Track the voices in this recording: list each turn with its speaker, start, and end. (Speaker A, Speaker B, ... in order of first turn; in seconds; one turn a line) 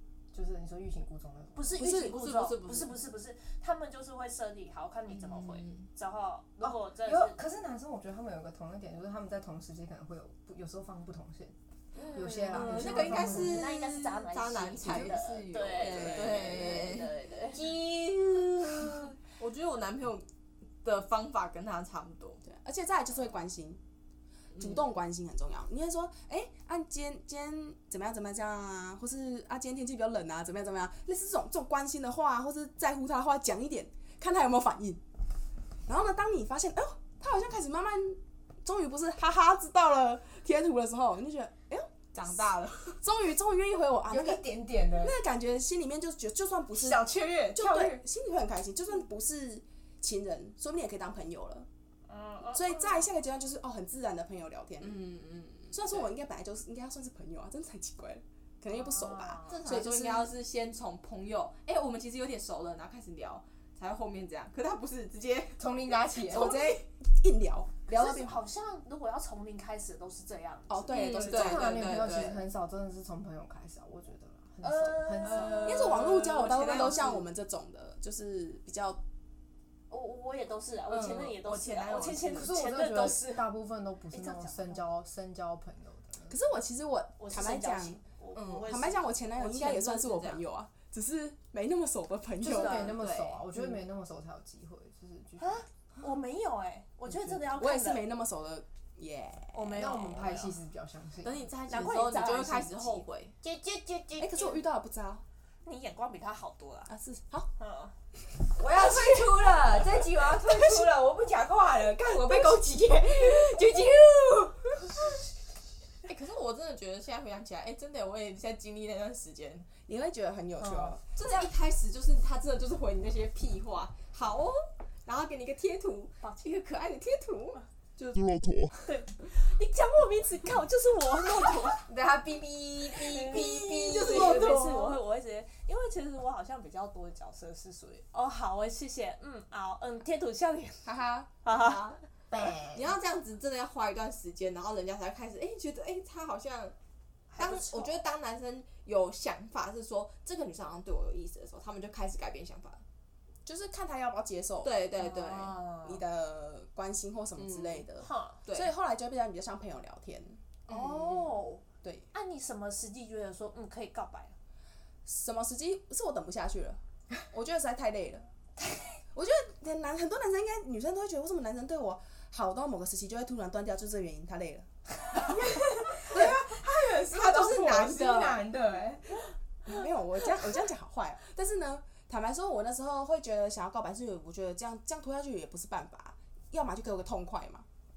Speaker A: 0.3-1.7
Speaker B: 1.5-7.4
Speaker C: 1.8-3.0
Speaker D: 1.8-2.1
Speaker C: 5.1-5.8
Speaker A: 6.6-11.5
Speaker C: 11.9-20.3
Speaker A: 12.1-13.7
Speaker B: 12.3-17.6
Speaker D: 15.8-16.6
Speaker C: 20.8-22.4
Speaker D: 22.4-23.8
Speaker C: 24.6-24.8
Speaker D: 24.6-35.0
Speaker D: 35.9-41.9
Speaker C: 42.1-43.0
Speaker D: 43.0-51.7
Speaker A: 44.1-45.2
Speaker A: 46.7-48.0
Speaker B: 52.1-53.0
Speaker D: 52.5-55.0
Speaker C: 54.8-56.1
Speaker D: 55.7-60.3
Speaker B: 58.7-59.6
Speaker C: 59.5-65.7
Speaker A: 65.6-66.6
Speaker D: 66.3-68.4
Speaker B: 67.9-71.6
Speaker D: 70.7-72.0
Speaker C: 70.9-72.4
Speaker A: 71.2-75.8
Speaker B: 74.6-75.9
Speaker C: 75.2-77.2
Speaker D: 75.6-79.0
Speaker B: 79.9-83.5
Speaker C: 80.9-82.6
Speaker A: 82.3-86.3
Speaker B: 84.1-84.8
Speaker D: 86.3-88.0
Speaker B: 87.2-89.2
Speaker C: 88.3-88.7
Speaker D: 88.7-93.0
Speaker C: 89.3-90.4
Speaker A: 92.4-95.6
Speaker C: 92.6-93.6
Speaker B: 95.4-98.0
Speaker D: 97.1-99.8
Speaker B: 99.5-100.5
Speaker A: 99.7-101.5
Speaker C: 101.2-103.3
Speaker B: 101.7-104.6
Speaker D: 104.2-105.2
Speaker B: 105.6-106.9
Speaker D: 106.9-107.5
Speaker B: 107.6-107.9
Speaker A: 108.5-115.2
Speaker C: 116.0-119.7
Speaker D: 119.9-121.0
Speaker B: 120.6-121.5
Speaker C: 121.1-128.4
Speaker B: 126.2-126.5
Speaker B: 128.8-131.8
Speaker A: 131.9-134.7
Speaker C: 132.9-135.0
Speaker B: 132.9-140.8
Speaker D: 140.8-141.3
Speaker B: 141.4-141.8
Speaker C: 141.5-142.0
Speaker A: 142.3-142.8
Speaker C: 142.7-146.7
Speaker B: 147.3-148.0
Speaker C: 147.4-152.8
Speaker D: 153.4-154.7
Speaker C: 154.6-155.6
Speaker B: 154.9-156.0
Speaker D: 155.8-160.4
Speaker C: 157.4-157.9
Speaker B: 158.0-158.4
Speaker C: 158.4-158.7
Speaker B: 160.7-164.3
Speaker D: 165.1-168.3
Speaker B: 168.6-169.0
Speaker D: 169.1-175.4
Speaker A: 175.2-179.2
Speaker C: 177.1-178.4
Speaker D: 179.7-187.6